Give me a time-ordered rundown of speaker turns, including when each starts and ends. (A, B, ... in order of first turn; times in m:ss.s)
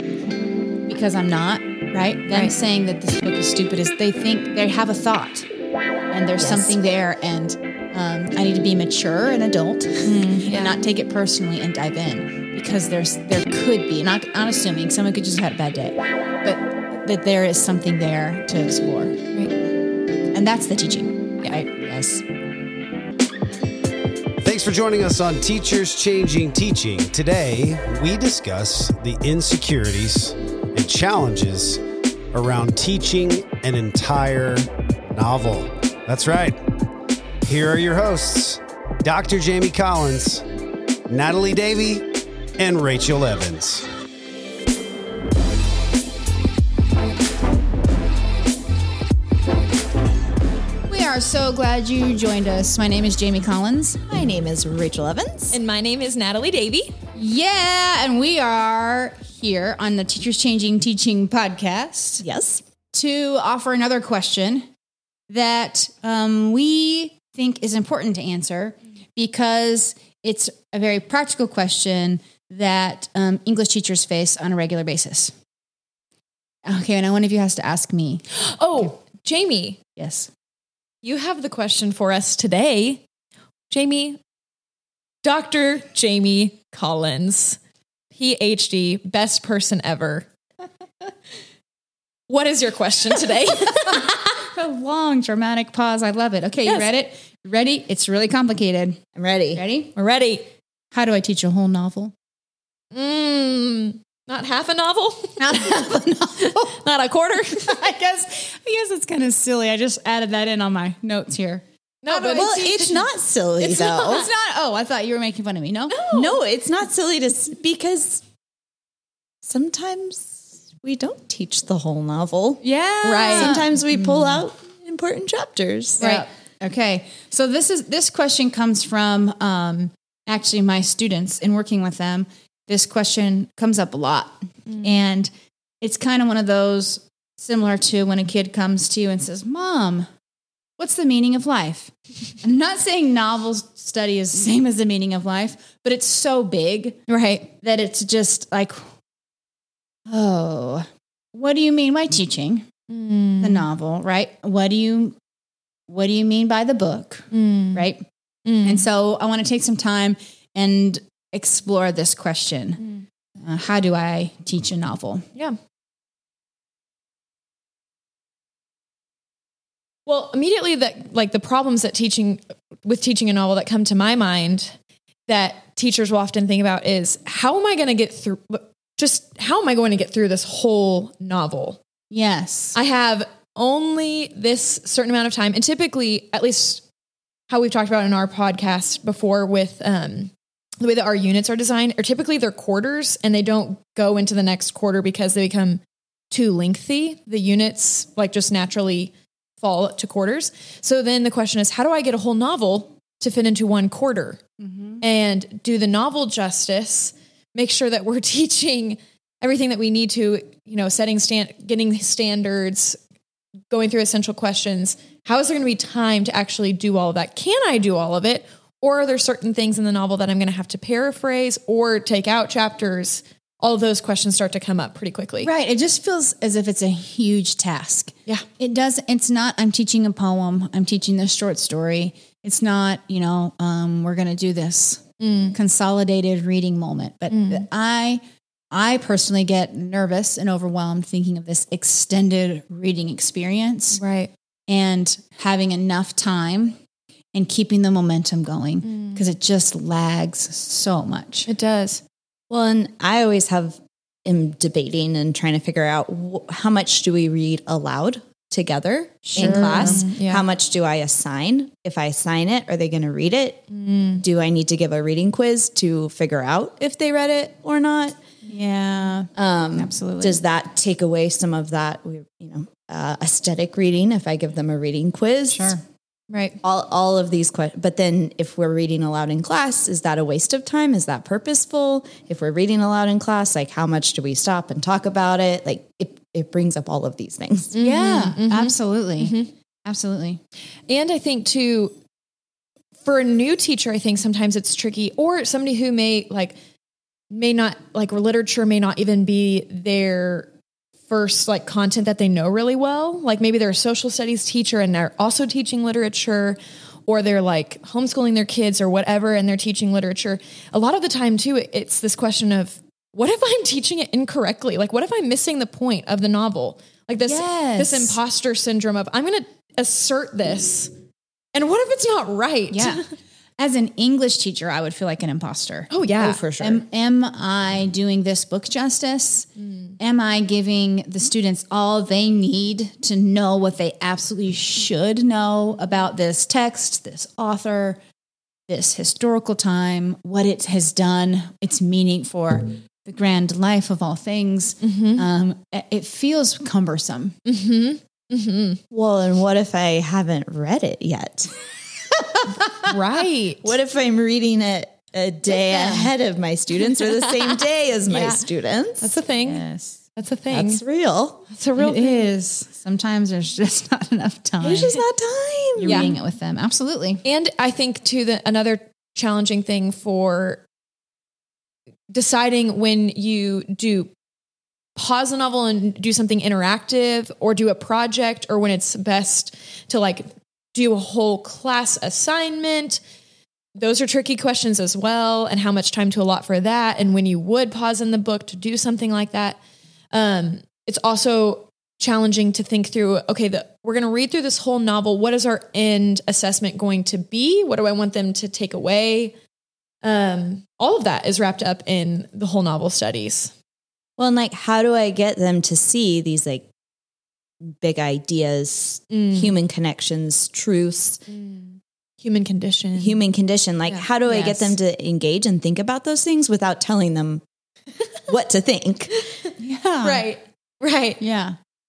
0:00.8-0:05.5 A
0:06.1-0:19.2 A
0:06.4-0:06.8 B
0:10.0-0:10.8 C
0:20.3-0:21.8 A
0:21.8-0:22.2 B
0:24.4-0:31.8 D
0:32.3-0:36.6 D
0:37.4-0:40.4 D
0:41.1-0:42.1 D
0:42.6-0:43.9 D
0:50.9-0:54.1 A
0:54.1-0:55.6 B
0:55.5-0:56.9 C
0:57.2-1:02.2 A
1:02.2-1:02.6 B
1:02.9-1:04.7 A
1:05.3-1:15.3 A
1:16.7-1:18.2 A
1:18.3-1:19.8 C
1:20.0-1:20.3 A
1:21.0-1:23.0 C
1:23.7-1:24.2 C
1:25.2-1:27.6 C
1:28.1-1:30.3 C
1:32.3-1:34.3 C
1:33.9-1:39.0 A
1:39.2-1:39.6 B
1:39.6-1:39.9 A
1:39.9-1:40.5 C
1:40.9-1:42.1 A
1:42.9-1:47.8 C
1:45.4-1:46.8 A
1:47.5-1:53.0 A
1:52.0-1:53.1 C
1:52.3-1:54.3 B
1:53.6-1:56.0 A
1:55.9-1:56.4 C
1:56.1-1:58.2 B
1:59.4-2:06.0 B
2:02.6-2:04.4 A
2:03.2-2:03.6 C
2:06.0-2:06.3 C
2:06.0-2:15.3 A
2:14.7-2:15.0 C
2:15.8-2:20.1 A
2:20.8-2:27.0 A
2:27.1-2:27.5 C
2:27.5-2:28.8 A
2:30.1-2:32.7 A
2:32.9-2:33.7 C
2:33.4-2:35.2 A
2:35.9-2:38.0 A
2:37.3-2:37.9 C
2:38.4-2:38.9 C
2:38.6-2:42.8 A
2:43.4-2:45.2 A
2:50.1-2:54.7 C
2:55.3-3:01.8 C
3:02.1-3:02.8 A
3:02.7-3:06.8 C
3:07.5-3:24.4 C
3:24.6-3:25.0 A
3:25.0-3:33.0 C
3:33.7-3:45.5 C
3:45.4-4:04.0 A
3:55.2-3:55.6 C
3:57.3-3:57.7 C
4:04.0-4:04.3 C
4:04.7-4:06.8 A
4:07.3-4:11.5 A
4:08.8-4:09.2 C
4:11.5-4:12.0 C
4:12.5-4:23.7 B
4:19.3-4:20.0 A
4:19.4-4:20.5 C
4:23.7-4:24.2 C
4:24.2-4:28.2 B
4:28.5-4:30.4 A
4:29.4-4:35.8 B
4:35.5-4:35.8 A
4:36.3-4:36.6 C
4:36.6-4:47.7 B
4:47.7-4:49.5 C
4:47.8-4:49.3 A
4:49.9-4:50.4 A
4:50.9-4:52.0 C
4:53.0-4:56.6 C
4:57.3-5:00.5 C
5:01.1-5:20.9 C
5:17.2-5:18.2 A
5:21.5-5:23.1 C
5:22.7-5:23.0 A
5:23.6-5:25.9 A
5:25.9-5:26.4 C
5:26.2-5:26.8 B
5:26.6-5:29.5 A
5:30.0-5:38.0 A
5:38.7-5:47.4 A
5:44.8-5:45.3 C
5:47.5-5:48.8 C
5:48.9-5:51.5 B
5:52.9-5:53.7 C
5:53.6-5:59.1 B
5:55.6-5:56.1 A
5:57.0-5:58.4 C
5:59.0-6:00.8 C
5:59.4-6:00.0 A
6:00.5-6:01.4 B
6:01.5-6:02.3 C
6:01.8-6:05.0 A
6:04.6-6:06.2 B
6:05.8-6:07.2 A
6:05.8-6:06.2 C
6:07.2-6:10.6 C
6:12.1-6:14.1 C
6:15.0-6:23.0 C
6:23.8-6:29.6 C
6:30.1-6:39.3 C
6:40.0-6:43.5 C
6:44.2-6:46.7 B
6:47.6-6:51.2 B
6:49.1-6:49.6 C
6:51.3-6:53.2 C
6:53.0-6:57.4 B
6:53.9-6:54.7 C
6:58.3-6:59.2 B
6:59.6-7:00.3 A
7:00.0-7:01.2 C
7:01.2-7:01.6 A